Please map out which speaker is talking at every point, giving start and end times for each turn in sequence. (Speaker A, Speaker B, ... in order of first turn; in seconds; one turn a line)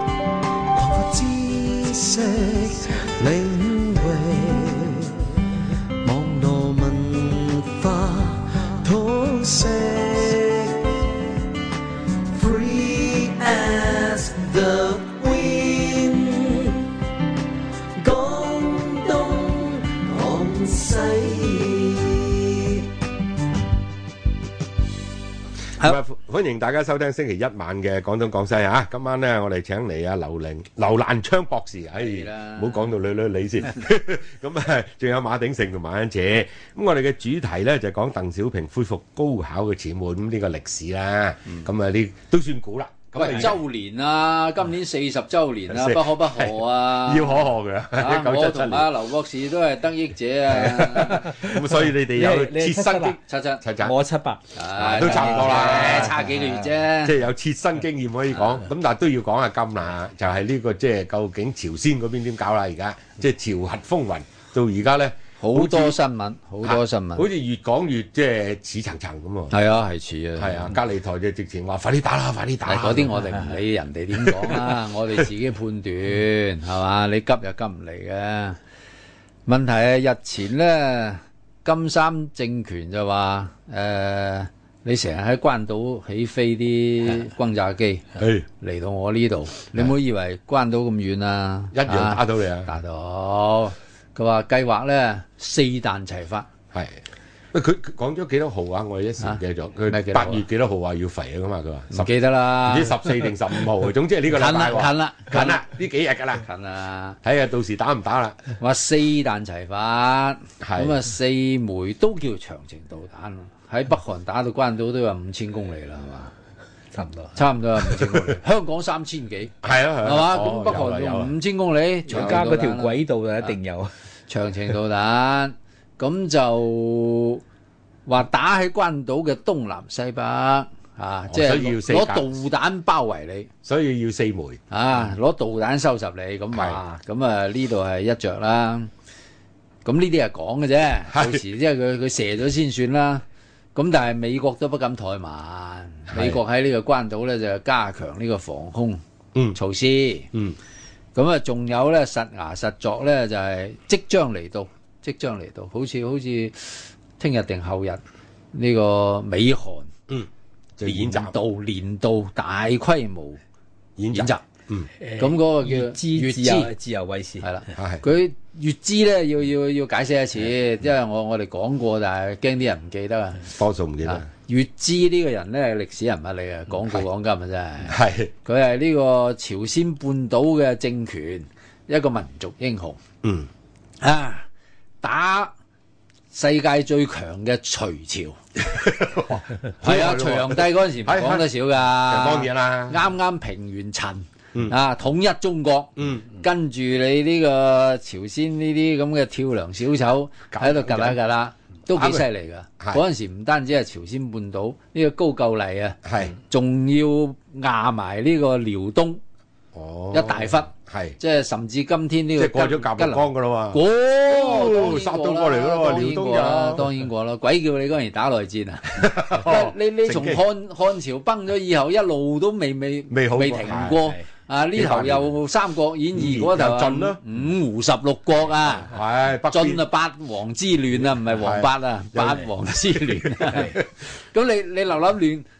Speaker A: 0.7-5.2
Speaker A: 6.0-11.1
Speaker A: 12.3-16.9
Speaker A: 18.0-22.9
Speaker B: 25.8-43.6
Speaker C: 32.0-32.9
Speaker C: 43.1-51.3
Speaker B: 45.7-48.9
Speaker B: 50.5-54.0
Speaker D: 51.2-53.2
Speaker C: 53.2-53.6
Speaker D: 53.8-56.7
Speaker C: 54.5-57.2
Speaker B: 54.8-56.2
Speaker B: 57.0-66.0
Speaker C: 58.3-58.6
Speaker C: 65.4-67.3
Speaker B: 66.6-69.6
Speaker C: 69.5-70.8
Speaker B: 70.4-73.2
Speaker C: 72.6-78.6
Speaker B: 74.2-74.8
Speaker C: 79.5-88.1
Speaker B: 88.2-88.5
Speaker C: 88.6-96.5
Speaker B: 91.7-92.7
Speaker B: 96.7-97.0
Speaker B: 97.5-106.5
Speaker C: 99.2-100.5
Speaker C: 101.9-103.4
Speaker C: 104.3-105.7
Speaker C: 106.4-107.2
Speaker B: 107.2-108.4
Speaker C: 108.6-116.3
Speaker B: 110.6-111.0
Speaker D: 116.9-118.3
Speaker C: 117.3-123.5
Speaker B: 119.6-121.3
Speaker D: 122.1-123.9
Speaker C: 124.3-127.4
Speaker C: 128.1-133.5
Speaker B: 131.3-132.3
Speaker B: 133.6-134.6
Speaker C: 134.7-138.9
Speaker B: 136.5-136.8
Speaker C: 139.8-143.2
Speaker B: 141.1-141.4
Speaker C: 143.8-149.0
Speaker B: 146.1-146.4
Speaker C: 149.5-150.3
Speaker B: 150.3-150.6
Speaker C: 151.2-158.0
Speaker C: 158.5-159.9
Speaker B: 160.1-161.3
Speaker C: 160.8-163.4
Speaker B: 164.0-164.9
Speaker C: 164.1-164.4
Speaker D: 165.0-167.5
Speaker C: 165.2-166.7
Speaker C: 167.4-173.5
Speaker B: 167.8-168.0
Speaker B: 173.5-174.3
Speaker C: 174.0-183.0
Speaker B: 177.9-178.3
Speaker B: 183.2-183.5
Speaker C: 184.0-184.5
Speaker C: 185.0-185.5
Speaker C: 186.3-188.4
Speaker B: 188.6-191.5
Speaker C: 189.8-209.2
Speaker B: 192.0-193.0
Speaker B: 196.0-196.3
Speaker B: 200.5-201.2
Speaker B: 201.9-202.3
Speaker B: 206.1-206.4
Speaker B: 209.7-211.2
Speaker C: 210.1-228.9
Speaker B: 212.4-216.9
Speaker B: 218.9-220.4
Speaker B: 223.1-224.1
Speaker B: 224.8-225.3
Speaker B: 226.2-227.2
Speaker B: 228.9-229.8
Speaker C: 229.5-235.5
Speaker B: 231.0-233.8